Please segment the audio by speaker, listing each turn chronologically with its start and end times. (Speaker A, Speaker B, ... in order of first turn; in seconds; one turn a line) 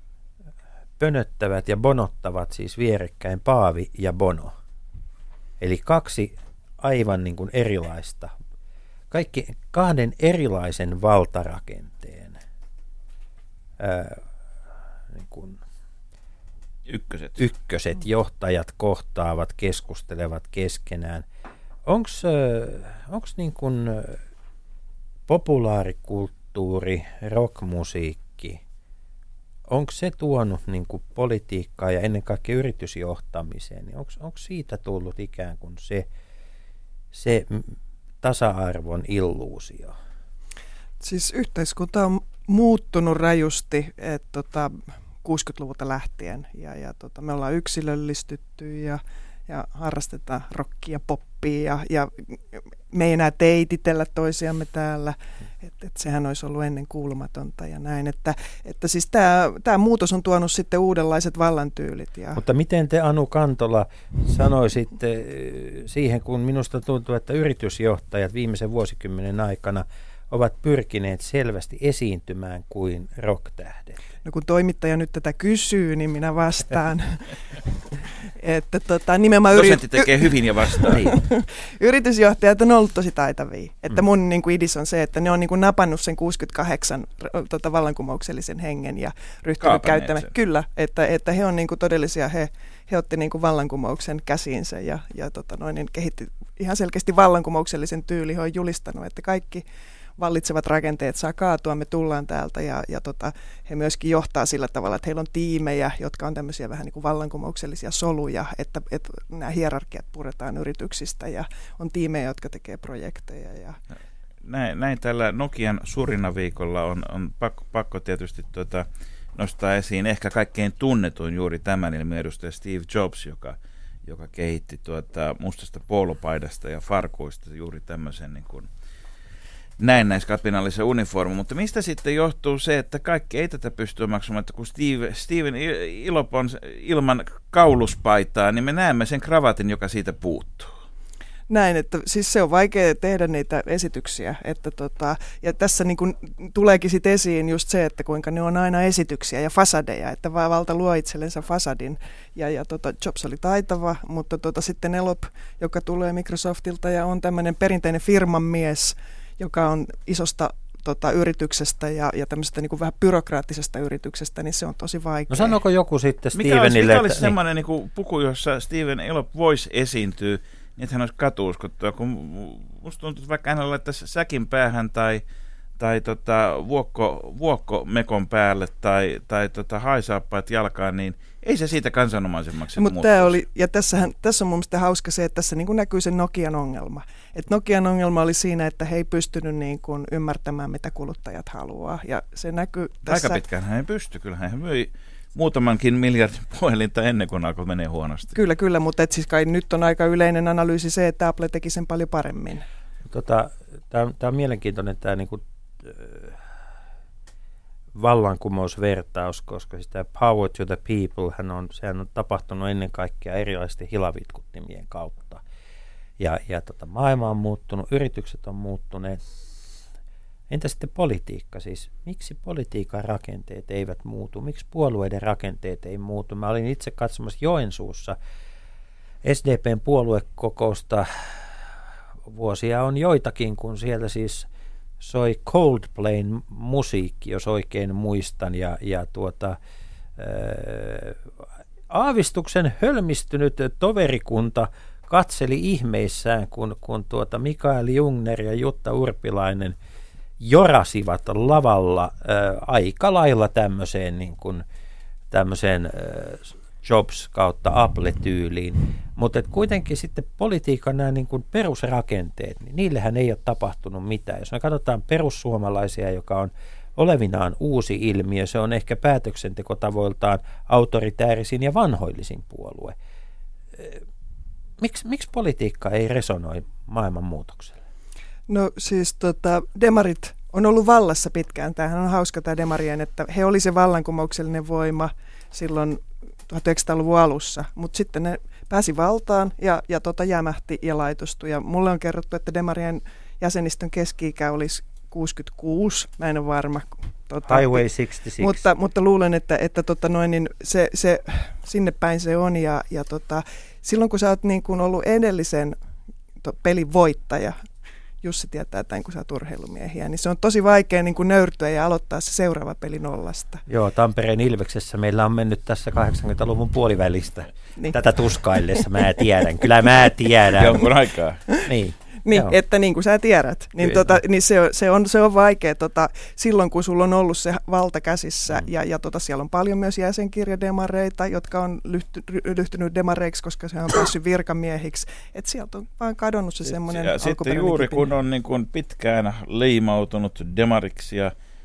Speaker A: 1.0-4.5
Speaker A: 5.6-8.3
Speaker A: 9.1-12.4
Speaker A: 13.8-14.2
Speaker A: 15.1-15.6
Speaker B: 16.9-17.4
Speaker A: 17.4-21.2
Speaker A: 21.9-24.2
Speaker A: 25.3-28.6
Speaker A: 29.7-36.1
Speaker A: 37.1-39.9
Speaker C: 41.0-62.4
Speaker A: 62.4-74.0
Speaker C: 74.2-99.6
Speaker B: 79.5-81.1
Speaker B: 89.6-90.3
Speaker C: 100.2-113.8
Speaker B: 114.4-128.7
Speaker B: 129.8-140.7
Speaker C: 141.5-165.6
Speaker A: 165.3-167.3
Speaker B: 166.3-175.2
Speaker B: 175.8-183.4
Speaker C: 182.8-193.4
Speaker B: 193.1-198.3
Speaker C: 198.3-202.6
Speaker A: 203.1-206.4
Speaker A: 207.9-215.4
Speaker A: 216.2-219.2
Speaker A: 220.5-228.2
Speaker A: 229.2-231.5
Speaker A: 232.2-234.5
Speaker A: 235.0-239.6
Speaker A: 240.2-241.2
Speaker A: 241.9-249.8
Speaker A: 250.4-254.6
Speaker A: 255.3-272.9
Speaker A: 273.8-274.0
Speaker A: 274.8-277.8
Speaker C: 278.5-297.8
Speaker A: 297.5-298.6
Speaker C: 298.4-305.8
Speaker C: 306.4-307.6
Speaker C: 308.2-313.6
Speaker A: 313.7-320.9
Speaker C: 318.7-319.2
Speaker B: 320.5-321.4
Speaker A: 321.6-322.6
Speaker C: 322.2-338.1
Speaker A: 323.8-324.1
Speaker B: 336.7-341.3